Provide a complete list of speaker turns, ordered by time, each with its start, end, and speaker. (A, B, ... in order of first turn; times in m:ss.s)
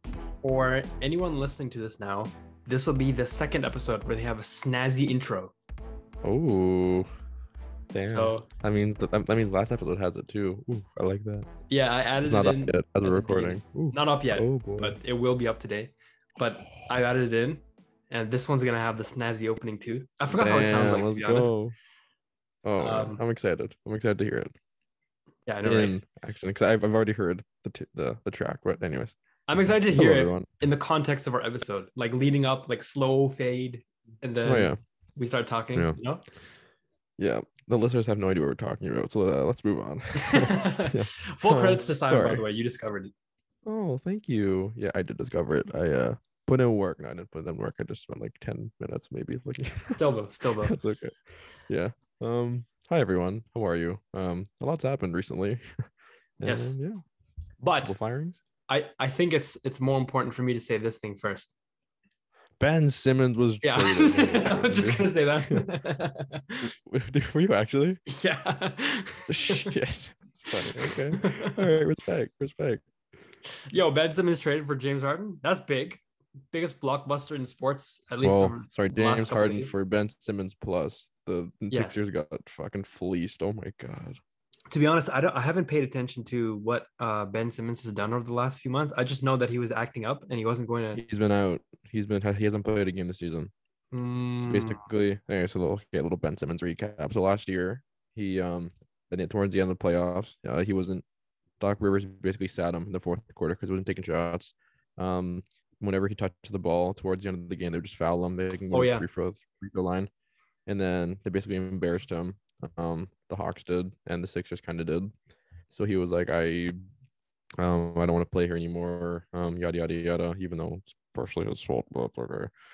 0:00.4-0:05.5 A
0:06.2-0:07.1 B
0:07.9-0:11.5 B
0:08.0-0:08.5 A
0:11.7-0:21.5 A
0:12.2-0:15.0 B
0:16.6-0:17.1 B
0:20.3-0:21.8 B
0:22.6-0:24.5 B
0:22.8-0:23.2 A
0:25.5-0:26.0 A
0:25.6-0:29.1 B
0:29.5-0:36.2 A
0:29.9-0:30.5 B
0:34.4-0:34.8 B
0:37.2-0:42.4 B
0:40.2-0:43.1 A
0:43.6-0:50.0 B
0:49.9-0:50.8 A
0:50.6-0:55.8 B
0:56.4-0:57.0 B
0:56.4-0:56.8 A
0:57.6-0:57.9 A
0:57.8-0:58.4 B
0:58.7-1:01.5 A
1:02.6-1:05.6 B
1:03.6-1:06.7 A
1:06.6-1:08.0 B
1:08.1-1:09.8 A
1:09.3-1:12.8 B
1:10.5-1:11.6 A
1:13.7-1:19.7 A
1:18.2-1:24.2 B
1:21.7-1:22.0 A
1:24.7-1:31.0 A
1:30.9-1:33.5 B
1:33.9-1:34.8 A
1:34.4-1:41.0 B
1:41.6-1:50.1 B
1:48.7-1:49.0 A
1:50.7-1:55.1 B
1:55.7-1:56.8 B
1:57.6-2:02.5 B